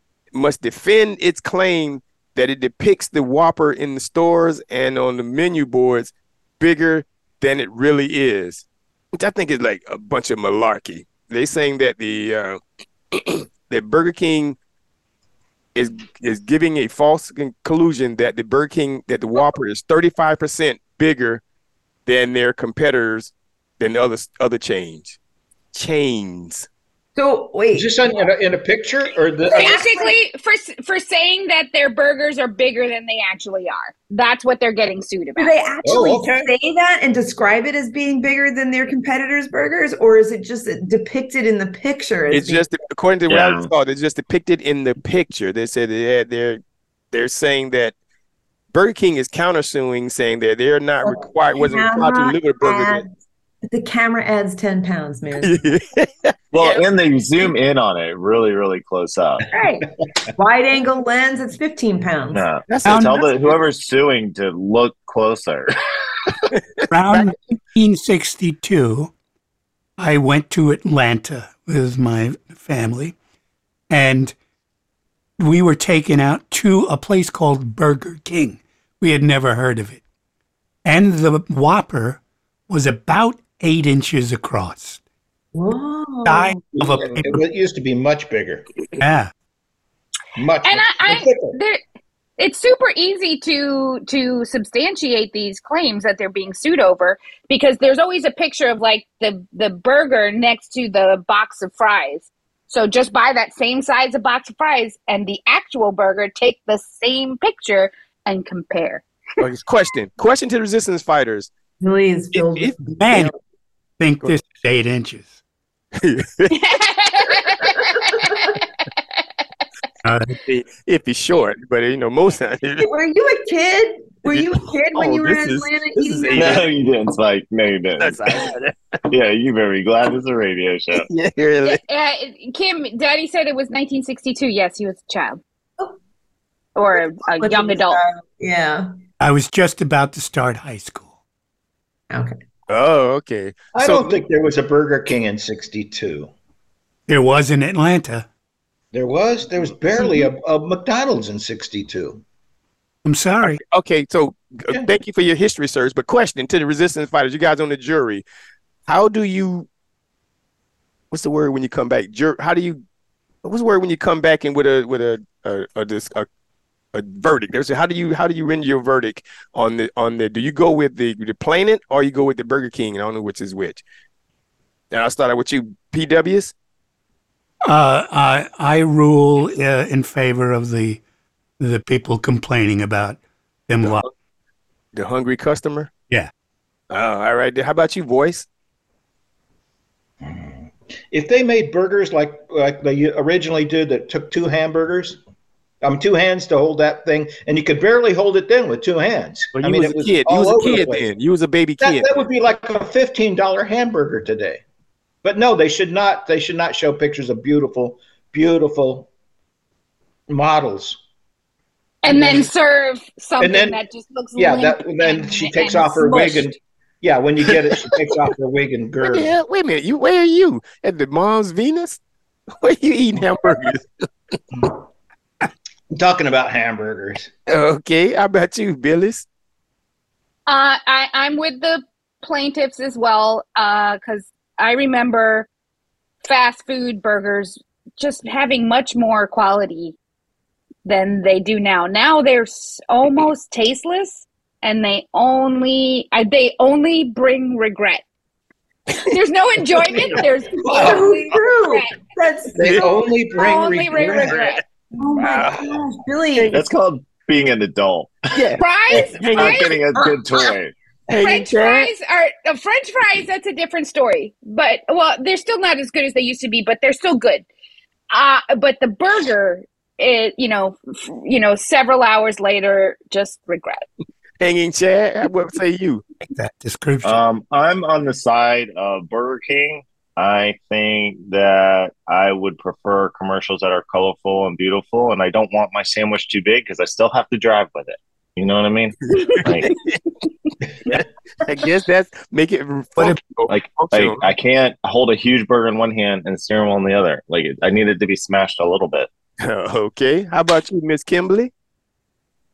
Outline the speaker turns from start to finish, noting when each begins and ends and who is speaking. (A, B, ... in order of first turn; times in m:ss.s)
0:00.3-0:12.6 A
0:13.1-0:14.6 A
0:15.8-0:21.4 A
0:22.1-0:25.2 A
0:25.7-0:26.7 A
0:27.2-0:27.9 B
0:27.7-0:29.8 C
0:29.5-0:30.2 B
0:29.5-0:35.5 D
0:35.4-0:42.7 B
0:35.8-0:36.5 C
0:42.3-0:47.9 A
0:43.3-0:43.7 E
0:48.7-0:53.0 A
0:51.0-0:53.1 B
0:53.7-0:55.5 B
0:55.4-0:56.8 A
0:56.5-0:59.4 E
0:59.5-1:02.4 B
1:02.3-1:05.8 E
1:02.7-1:03.6 A
1:02.9-1:03.2 F
1:06.5-1:07.3 A
1:06.9-1:09.1 F
1:10.0-1:13.2 F
1:13.9-1:14.4 F
1:15.4-1:20.0 F
1:20.8-1:25.0 F
1:25.5-1:26.6 B
1:26.3-1:27.4 F
1:26.7-1:28.6 C
1:29.0-1:29.3 F
1:30.4-1:31.6 C
1:30.6-1:31.8 D
1:32.4-1:49.0 D
1:49.4-1:51.5 A
1:51.8-1:53.4 B
1:52.4-1:52.8 A
1:53.0-1:53.3 F
1:54.0-1:55.4 F
1:56.0-1:56.6 A
1:56.5-1:58.3 D
1:58.0-1:58.4 B
2:00.0-2:00.4 F
2:00.4-2:02.9 A
2:02.8-2:06.6 B
2:04.3-2:06.7 A
2:06.3-2:08.5 E
2:08.0-2:08.8 A
2:09.1-2:11.1 E
2:10.9-2:11.8 A
2:11.6-2:15.4 D
2:16.8-2:18.0 D
2:16.9-2:18.9 B
2:19.2-2:21.1 F
2:22.1-2:22.4 B
2:22.7-2:24.2 A
2:23.7-2:26.3 C
2:27.1-2:28.3 F
2:28.9-2:32.2 C
2:33.0-2:33.6 F
2:33.4-2:38.2 A
2:38.9-2:39.7 A
2:41.1-2:42.8 A
2:43.4-2:46.3 A
2:46.9-2:53.8 A
2:54.9-2:56.5 A
2:57.7-3:01.0 F
3:01.6-3:04.0 F
3:04.9-3:05.9 A
3:06.9-3:08.5 A
3:10.2-3:15.2 C
3:15.8-3:21.1 C
3:19.6-3:22.3 A
3:21.8-3:24.6 C
3:25.2-3:29.1 C
3:30.3-3:31.0 C
3:32.0-3:36.5 D
3:32.1-3:32.5 C
3:33.4-3:33.8 C
3:34.4-3:39.3 C
3:39.0-3:42.0 A
3:42.6-3:43.9 A
3:44.5-3:44.8 C
3:45.9-3:47.3 C
3:47.5-3:49.3 A
3:50.5-3:55.5 D
3:56.2-4:00.0 D
4:00.8-4:08.0 D
4:09.0-4:12.0 D
4:10.6-4:13.0 B
4:10.6-4:11.0 C
4:12.6-4:14.6 C
4:13.3-4:14.6 D
4:15.0-4:16.6 B
4:15.2-4:15.7 A
4:16.4-4:16.6 A
4:16.5-4:18.2 E
4:18.3-4:19.7 A
4:18.6-4:19.8 D
4:19.2-4:20.7 E
4:21.1-4:21.9 A
4:21.2-4:27.5 D
4:28.1-4:33.8 D
4:34.4-4:36.1 A
4:36.3-4:37.2 F
4:37.0-4:49.7 E
4:49.2-4:50.0 A
4:50.8-4:54.3 A
4:53.5-4:59.1 E
4:59.4-5:01.5 A